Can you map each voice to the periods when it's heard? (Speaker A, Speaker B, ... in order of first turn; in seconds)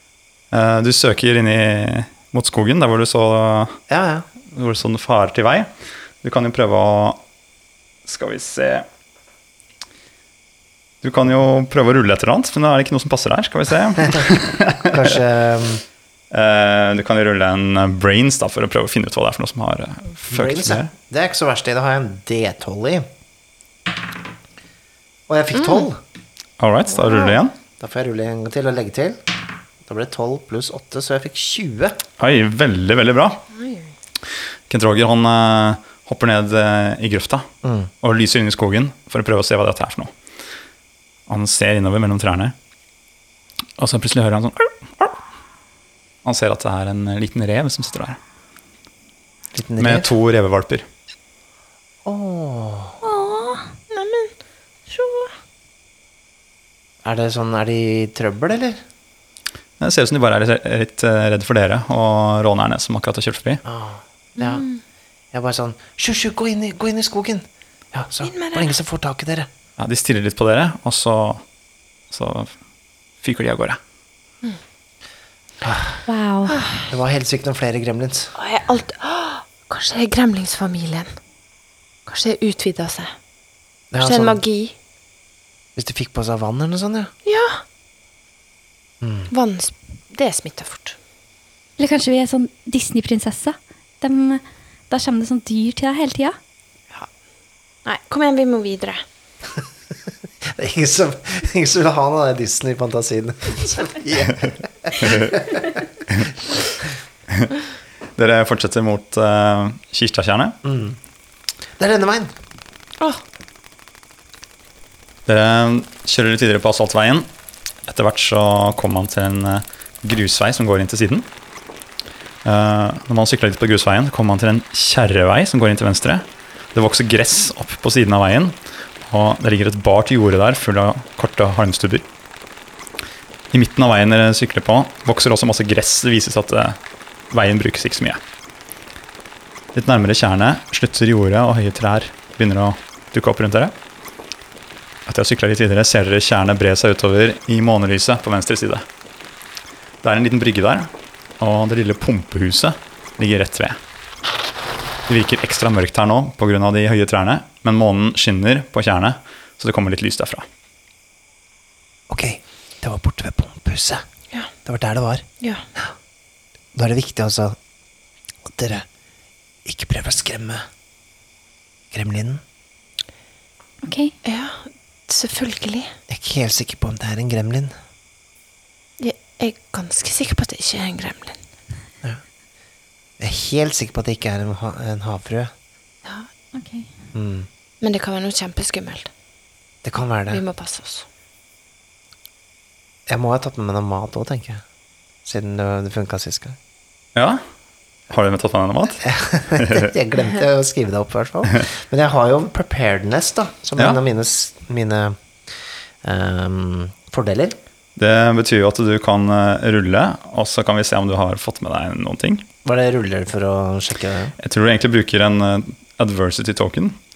Speaker A: 0.5-3.8, 4.5-7.2, 8.1-8.9, 11.0-15.2, 16.3-20.9, 26.6-27.6, 32.2-33.4, 34.7-37.5, 38.0-40.1, 41.3-42.5, 43.8-45.2, 46.2-48.2, 49.8-50.9, 59.8-63.6, 69.8-71.4, 72.1-72.5, 73.2-73.8, 105.0-105.3, 108.2-110.6, 115.3-117.3, 117.9-121.3, 122.5-132.1, 133.5-136.8, 137.3-138.2, 139.7-143.7, 145.1-148.8, 150.0-153.8, 155.1-160.5, 197.2-197.4, 198.1-199.9, 208.0-212.4, 214.4-217.0
Speaker B: 3.9-4.3, 14.8-15.8, 20.3-23.1, 25.3-26.0, 27.8-29.2, 29.9-32.0, 37.6-37.9, 49.5-50.1, 52.0-53.0, 57.0-58.8, 63.6-64.7, 65.3-69.5, 75.6-76.0, 76.8-78.3, 83.9-84.4, 85.8-87.1, 89.0-89.3, 100.5-105.8, 110.6-111.0, 111.8-112.3, 162.1-164.1, 164.7-165.3, 166.8-167.6, 168.5-168.9, 169.7-170.7, 171.9-172.4, 176.1-177.8, 183.2-185.5, 187.1-187.5, 189.8-190.4, 193.1-194.6, 195.2-196.6, 199.0-205.2, 206.0-207.6, 212.7-214.4
Speaker C: 25.6-25.9, 27.1-27.3, 33.6-33.9, 53.9-54.3, 54.9-55.3, 64.4-64.8, 68.2-68.8, 76.5-76.8, 78.4-81.1, 82.1-83.1, 84.0-84.8, 87.2-87.6, 89.3-91.0, 97.8-99.0, 174.2-175.9, 179.0-181.4, 187.8-189.1, 190.3-191.1
Speaker D: 53.0-53.7, 76.1-76.6, 91.8-96.4, 173.8-174.2, 186.5-186.9